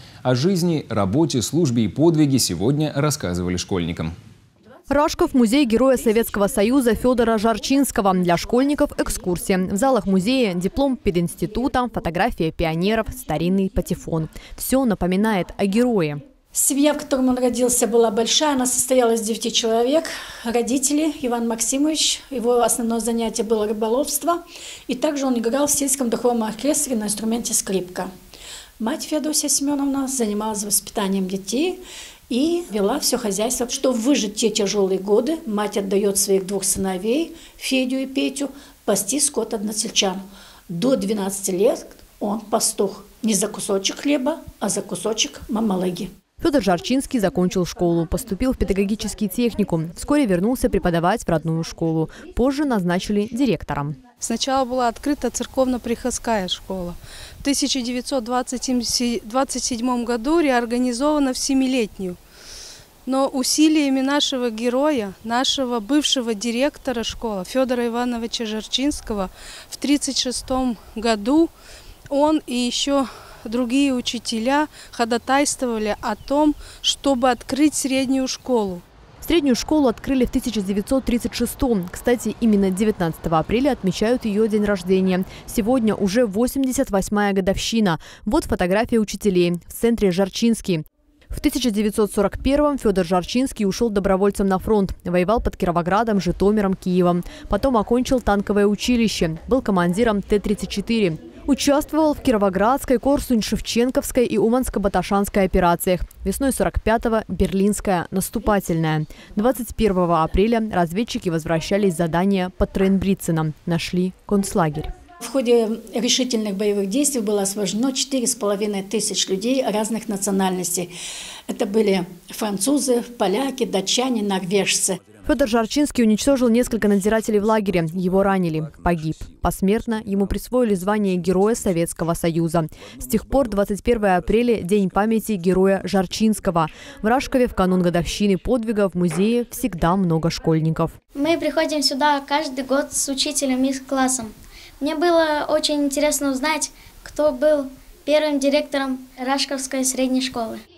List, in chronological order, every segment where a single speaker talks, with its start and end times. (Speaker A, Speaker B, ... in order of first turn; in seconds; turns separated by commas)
Speaker A: 0.2-4.1, Speaker B: 4.9-16.2, Speaker C: 16.5-28.1, Speaker C: 28.8-46.1, Speaker B: 46.4-54.0, Speaker D: 54.2-62.2, Speaker D: 63.0-71.5, Speaker D: 72.1-78.8, Speaker B: 79.2-114.9, Speaker C: 115.2-120.9, Speaker C: 121.5-125.0, Speaker B: 125.2-140.9, Speaker E: 141.1-150.6